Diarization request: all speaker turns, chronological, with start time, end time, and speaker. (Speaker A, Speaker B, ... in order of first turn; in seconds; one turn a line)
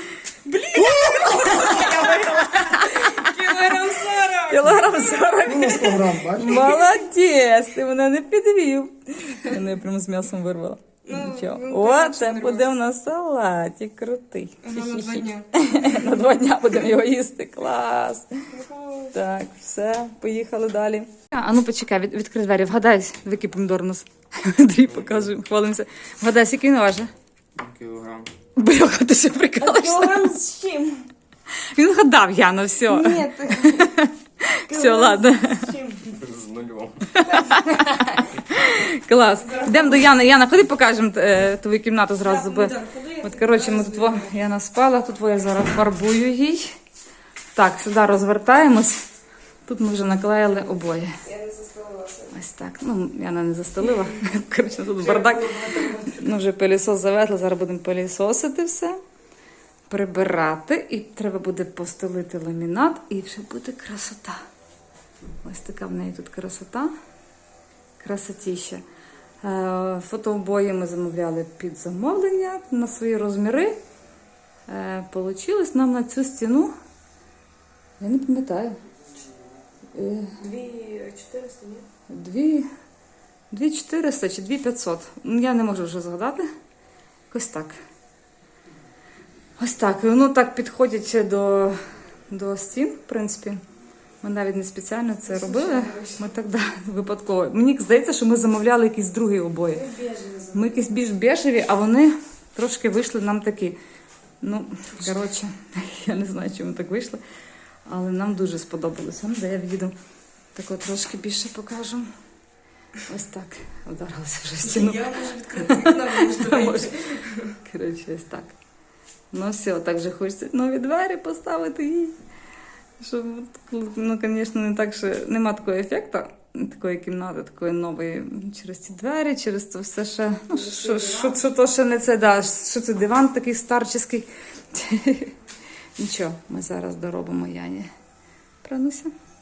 Speaker A: 0.4-5.2
Speaker B: 0.7-18.5
Speaker C: 5.5-6.5
Speaker A: 6.5-6.9
Speaker A: 11.1-12.7
Speaker A: 14.6-16.1
Speaker A: 18.5-19.1
Speaker B: 19.1-27.1
Speaker C: 27.6-28.3
Speaker B: 28.6-30.4
Speaker A: 29.6-31.1
Speaker B: 31.5-35.7
Speaker A: 32.9-34.0
Speaker A: 34.7-36.3
Speaker C: 36.2-37.0
Speaker B: 37.1-46.8
Speaker A: 37.1-38.0
Speaker A: 42.2-44.3
Speaker B: 47.5-49.0
Speaker B: 49.7-51.2
Speaker A: 51.2-52.3
Speaker B: 52.3-59.0
Speaker A: 55.0-56.1
Speaker B: 59.9-64.4
Speaker B: 65.4-66.9
Speaker B: 68.0-68.8
Speaker B: 69.4-73.8
Speaker B: 74.7-76.7
Speaker B: 78.0-78.8
Speaker B: 79.9-80.4
Speaker A: 80.4-81.9
Speaker B: 82.1-82.7
Speaker B: 83.5-86.5
Speaker B: 87.3-87.8
Speaker B: 89.6-93.6
Speaker B: 94.2-103.8
Speaker A: 95.3-96.2
Speaker A: 99.8-100.7
Speaker B: 104.4-107.2
Speaker B: 107.9-110.0
Speaker B: 110.5-112.1
Speaker B: 113.0-118.5
Speaker A: 114.6-117.6
Speaker B: 119.3-122.2
Speaker B: 123.0-135.4
Speaker A: 130.5-131.4
Speaker B: 136.0-137.9
Speaker B: 138.6-139.1